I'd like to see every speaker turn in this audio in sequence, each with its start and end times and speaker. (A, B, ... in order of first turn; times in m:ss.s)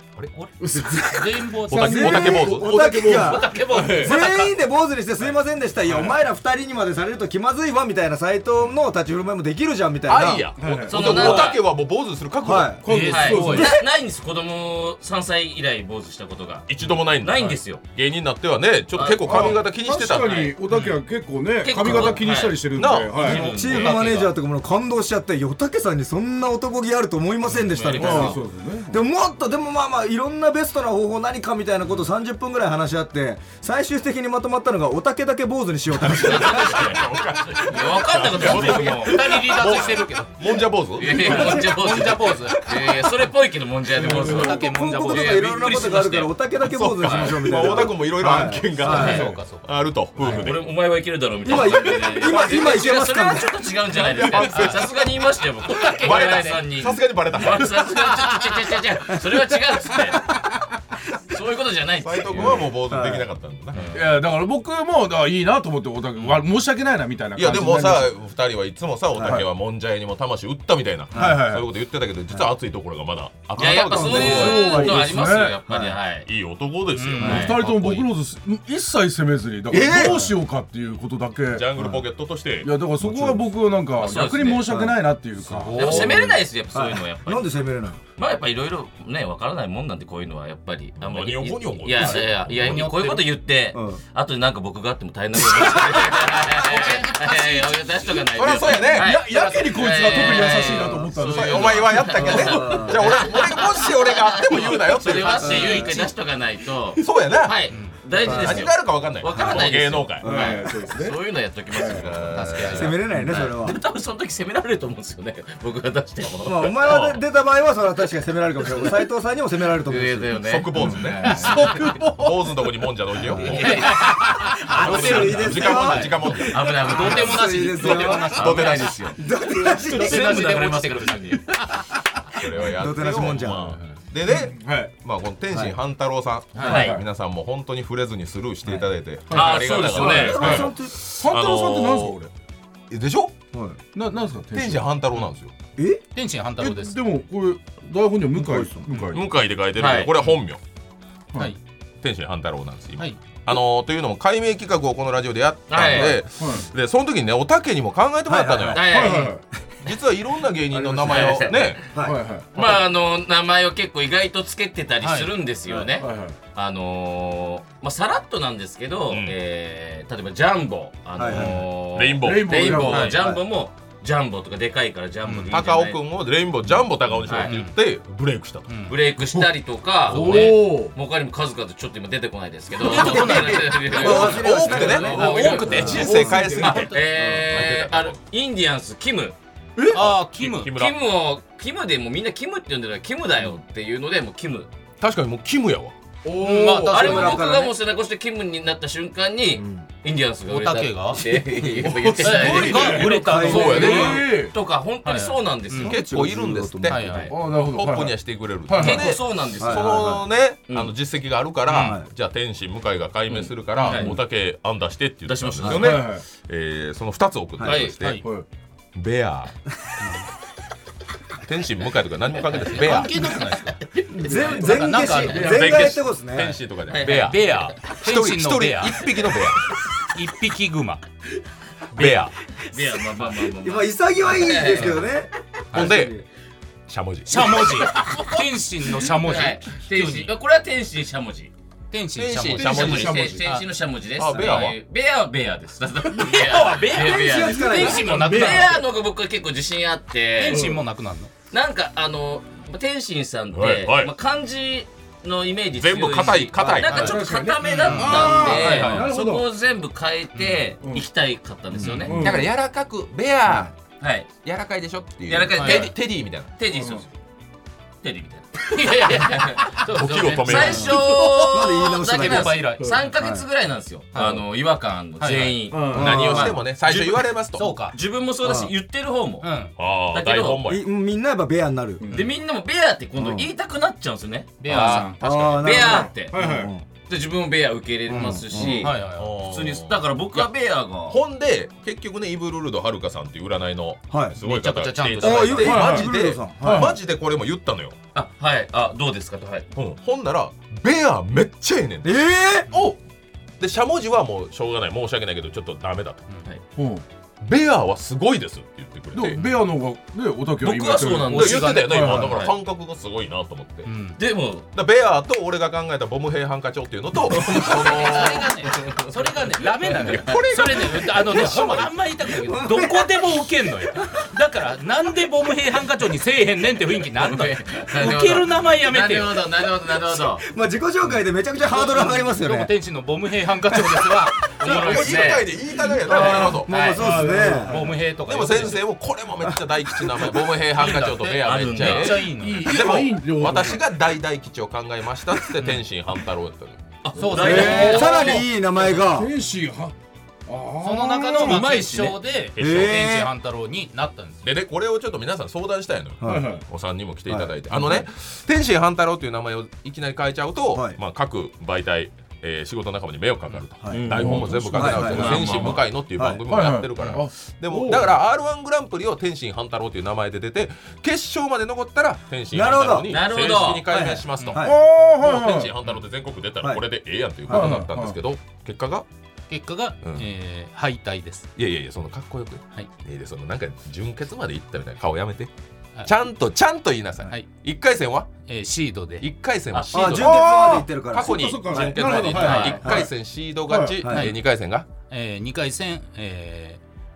0:00.2-0:00.8 A
0:00.6-0:04.2 B
0:00.7-0:10.5 C
0:01.2-0:02.4 D
0:01.7-0:03.4 A
0:03.0-0:04.6 D
0:05.9-0:06.2 B
0:10.1-0:12.8 A
0:10.6-0:11.4 B
0:10.8-0:11.6 E
0:12.4-0:12.9 C
0:12.6-0:13.8 B
0:12.9-0:13.8 D
0:13.0-0:17.8 E
0:16.7-0:20.6 A
0:18.9-0:20.5 E
0:19.2-0:23.5 B
0:20.7-0:21.0 D
0:21.6-0:24.3 E
0:22.7-0:24.0 A
0:23.3-0:37.0 C
0:23.4-0:24.2 D
0:27.6-0:28.4 E
0:27.9-0:29.0 B
0:36.0-0:41.6 A
0:36.0-0:39.2 E
0:38.3-0:42.6 D
0:41.0-0:46.3 E
0:41.1-0:43.1 C
0:43.9-0:44.6 B
0:44.0-0:46.3 D
0:44.0-0:49.3 C
0:46.6-0:50.7 A
0:47.1-0:47.4 E
0:47.5-0:49.3 B
0:48.8-0:49.7 D
0:48.9-0:49.2 E
0:50.2-1:00.3 E
0:51.4-0:53.5 C
0:54.1-0:55.2 A
0:54.5-0:54.9 D
0:55.7-0:56.6 D
0:56.0-0:58.2 A
1:01.3-1:02.7 E
1:02.0-1:03.9 A
1:02.4-1:03.3 C
1:03.8-1:04.2 E
1:03.9-1:08.2 B
1:07.4-1:15.0 A
1:09.2-1:09.5 B
1:11.1-1:11.6 C
1:11.1-1:11.7 B
1:13.6-1:15.1 C
1:13.6-1:16.3 E
1:13.9-1:15.6 B
1:15.7-1:16.0 C
1:16.2-1:18.1 A
1:16.9-1:17.5 D
1:17.2-1:17.5 E
1:17.2-1:21.7 B
1:19.7-1:20.3 C
1:19.7-1:20.2 A
1:21.5-1:22.8 A
1:21.8-1:22.0 C
1:22.6-1:26.1 B
1:23.1-1:23.3 C
1:23.9-1:24.6 E
1:24.6-1:25.0 C
1:25.6-1:26.4 D
1:25.7-1:27.6 E
1:25.8-1:26.2 C
1:26.7-1:28.0 C
1:28.2-1:56.8 E
1:31.0-1:32.9 A
1:32.0-1:33.4 D
1:33.7-1:34.0 C
1:36.0-1:37.9 D
1:38.3-1:39.1 A
1:38.8-1:43.1 B
1:39.2-1:40.6 D
1:41.3-1:45.8 A
1:42.3-1:43.0 C
1:45.0-1:46.1 D
1:45.6-1:45.9 C
1:47.0-1:47.6 A
1:47.7-1:48.0 D
1:48.2-1:50.3 A
1:48.2-1:48.7 C
1:49.3-1:50.6 C
1:50.2-1:52.1 B
1:51.8-1:52.8 A
1:52.3-1:53.0 D
1:52.7-1:53.8 C
1:56.4-2:01.0 C
1:56.8-1:57.2 A
1:58.6-1:59.0 E
1:59.9-2:00.7 E
2:00.4-2:03.9 A
2:00.8-2:02.3 B
2:01.2-2:01.7 D
2:03.3-2:03.9 C
2:03.4-2:05.5 E
2:03.4-2:09.0 D
2:04.7-2:08.5 C
2:04.7-2:06.6 A
2:06.5-2:11.4 E
2:08.3-2:09.0 A
2:09.2-2:10.5 C
2:09.6-2:11.8 D
2:12.4-2:22.2 A
2:12.6-2:13.8 C
2:13.4-2:14.9 B
2:15.5-2:15.8 C
2:16.6-2:17.0 E
2:16.6-2:17.0 B
2:19.3-2:22.3 B
2:19.3-2:20.7 E
2:20.0-2:21.0 C
2:22.9-2:23.4 A
2:23.5-2:23.8 C
2:23.9-2:25.0 B
2:24.5-2:25.5 A
2:25.8-2:26.0 C
2:26.2-2:27.0 D
2:26.6-2:29.3 B
2:28.4-2:28.9 C
2:29.1-2:30.6 A
2:29.8-2:30.1 E
2:32.0-2:39.0 A
2:35.7-2:36.2 E
2:35.8-2:36.7 B
2:38.3-2:38.8 C
2:38.7-2:39.3 E
2:38.7-2:39.4 B
2:39.8-2:41.9 A
2:40.7-2:42.2 C
2:41.0-2:41.9 E
2:41.9-2:42.5 B
2:42.5-2:56.0 E
2:42.6-2:42.8 A
2:45.0-2:45.3 D
2:46.0-2:46.4 B
2:49.1-2:49.4 A
2:51.2-2:51.6 C
2:51.3-2:51.7 B
2:51.9-2:53.1 A
2:52.2-2:53.4 B
2:55.5-2:58.7 A
2:57.2-2:57.5 E
2:57.4-2:57.8 D
2:58.7-2:59.0 D
2:58.9-3:06.0 E
2:59.2-2:59.5 B
3:00.0-3:00.9 B
3:00.1-3:00.8 D
3:02.8-3:06.2 D
3:02.8-3:06.5 C
3:03.9-3:08.2 A
3:05.5-3:07.0 B
3:06.6-3:09.4 E
3:07.2-3:07.5 C
3:09.8-3:10.1 B
3:09.9-3:10.8 D
3:09.9-3:11.0 A
3:10.7-3:14.7 E
3:15.0-3:16.0 A
3:16.2-3:17.3 B
3:16.4-3:17.5 D
3:16.4-3:25.9 E
3:16.9-3:17.8 C
3:19.6-3:19.9 C
3:20.5-3:21.2 D
3:21.6-3:24.6 B
3:22.2-3:24.3 D
3:23.1-3:24.2 C
3:23.4-3:24.2 A
3:25.0-3:25.9 D
3:25.8-3:27.1 C
3:25.8-3:38.2 A
3:26.9-3:27.3 D
3:27.0-3:27.3 E
3:27.3-3:29.2 B
3:28.8-3:30.2 E
3:29.6-3:30.2 C
3:31.7-3:32.0 D
3:31.7-3:32.1 C
3:33.3-3:34.2 E
3:33.8-3:34.1 B
3:35.3-3:35.9 E
3:35.6-3:36.0 C
3:35.6-3:36.2 B
3:37.6-3:38.0 E
3:37.8-3:38.2 D
3:38.2-3:38.5 B
3:38.9-3:39.6 A
3:41.4-3:43.3 A
3:42.5-3:45.7 D
3:42.7-3:45.3 E
3:44.1-3:46.6 C
3:45.3-3:45.7 B
3:45.3-3:49.6 A
3:46.9-3:47.4 E
3:47.0-3:49.1 D
3:50.0-3:51.0 D
3:51.9-3:52.3 A
3:52.7-3:55.1 E
3:53.6-3:56.3 C
3:55.7-3:56.2 A
3:56.9-3:57.9 A
3:57.3-4:00.3 D
3:57.7-3:58.4 E
3:59.0-4:01.5 E
4:01.9-4:03.7 D
4:02.2-4:03.4 A
4:02.6-4:03.5 B
4:02.6-4:10.7 E
4:04.2-4:04.8 A
4:04.3-4:04.7 C
4:04.4-4:04.7 D
4:06.1-4:08.8 D
4:06.9-4:08.7 C
4:07.6-4:08.7 B
4:10.4-4:11.3 D
4:10.5-4:10.8 B
4:11.5-4:22.2 E
4:13.5-4:14.1 A
4:15.8-4:17.2 A
4:16.9-4:19.1 D
4:16.9-4:19.5 B
4:18.7-4:19.1 A
4:20.4-4:20.6 D
4:20.8-4:21.1 B
4:21.8-4:22.3 C
4:22.0-4:22.5 B
4:22.2-4:23.7 A
4:23.5-4:23.7 C
4:24.0-4:24.3 E
4:24.4-4:26.6 A
4:25.3-4:26.0 E
4:25.6-4:25.9 D
4:26.6-4:27.1 E
4:26.7-4:27.0 B
4:28.0-4:40.6 E
4:28.7-4:33.0 D
4:29.9-4:31.0 A
4:30.7-4:33.4 C
4:32.8-4:33.0 B
4:34.1-4:34.5 D
4:35.2-4:35.6 D
4:35.7-4:36.4 B
4:35.9-4:36.6 C
4:35.9-4:37.7 A
4:37.6-4:38.0 D
4:38.4-4:38.7 C
4:39.4-4:39.7 D
4:39.8-4:40.8 A
4:40.7-4:42.0 C
4:42.0-4:42.4 B
4:42.1-4:46.4 E
4:43.2-4:43.5 C
4:44.6-4:45.6 D
4:44.7-4:46.7 B
4:45.2-4:46.8 C
4:47.1-4:51.2 E
4:48.1-4:48.9 C
4:48.6-4:49.4 D
4:49.1-4:50.5 A
4:51.1-4:58.0 A
4:54.1-4:54.4 C
4:54.4-4:55.8 D
4:55.2-4:56.9 C
4:55.6-4:57.0 B
4:58.1-4:59.7 E
4:59.8-5:02.9 A
5:02.0-5:02.7 C
5:03.6-5:06.2 A
5:06.8-5:07.0 B
5:07.4-5:09.4 A
5:09.1-5:12.3 B
5:10.6-5:12.6 E
5:11.3-5:13.9 A
5:11.4-5:12.2 D
5:12.0-5:12.4 C
5:13.8-5:14.2 D
5:14.2-5:14.7 E
5:14.7-5:18.6 A
5:17.3-5:20.4 E
5:17.4-5:29.5 D
5:19.9-5:22.0 A
5:22.2-5:23.5 C
5:27.2-5:30.4 E
5:30.4-5:32.7 C
5:31.6-5:35.4 D
5:33.8-5:34.1 C
5:34.5-5:35.5 E
5:34.6-5:36.7 A
5:36.0-5:37.9 C
5:36.1-5:37.1 E
5:36.1-5:38.9 D
5:37.0-5:38.0 B
5:38.2-5:46.8 A
5:39.4-5:40.3 C
5:40.6-5:42.9 D
5:41.4-5:42.3 E
5:42.3-5:43.8 B
5:47.0-5:48.4 E
5:47.2-5:48.4 D
5:47.3-5:49.9 B
5:47.4-5:49.3 C
5:50.5-5:52.0 B
5:50.8-5:54.4 D
5:51.4-5:52.2 E
5:52.6-5:53.1 A
5:52.6-5:53.3 C
5:54.4-6:14.7 A
5:56.2-5:56.5 C
5:56.2-5:56.6 B
5:57.3-5:58.0 C
6:00.7-6:01.0 C
6:03.8-6:04.2 C
6:03.9-6:04.4 E
6:04.0-6:05.8 B
6:04.7-6:05.5 C
6:04.9-6:05.8 E
6:06.2-6:06.4 C
6:06.5-6:08.2 B
6:12.5-6:13.2 C
6:13.1-6:13.9 E
6:13.9-6:14.8 C
6:14.6-6:15.7 B
6:15.2-6:19.1 A
6:17.5-6:17.8 C
6:17.5-6:18.2 B
6:19.5-6:21.5 D
6:20.0-6:20.3 A
6:21.6-6:25.5 A
6:26.0-6:28.3 A
6:28.5-6:29.3 D
6:29.2-6:30.6 A
6:29.7-6:30.2 E
6:29.9-6:33.1 C
6:30.1-6:33.1 B
6:31.1-6:34.9 A
6:32.3-6:32.8 D
6:32.4-6:32.8 E
6:33.6-6:34.0 B
6:34.0-6:34.3 C
6:34.1-6:34.4 D
6:35.1-6:36.8 D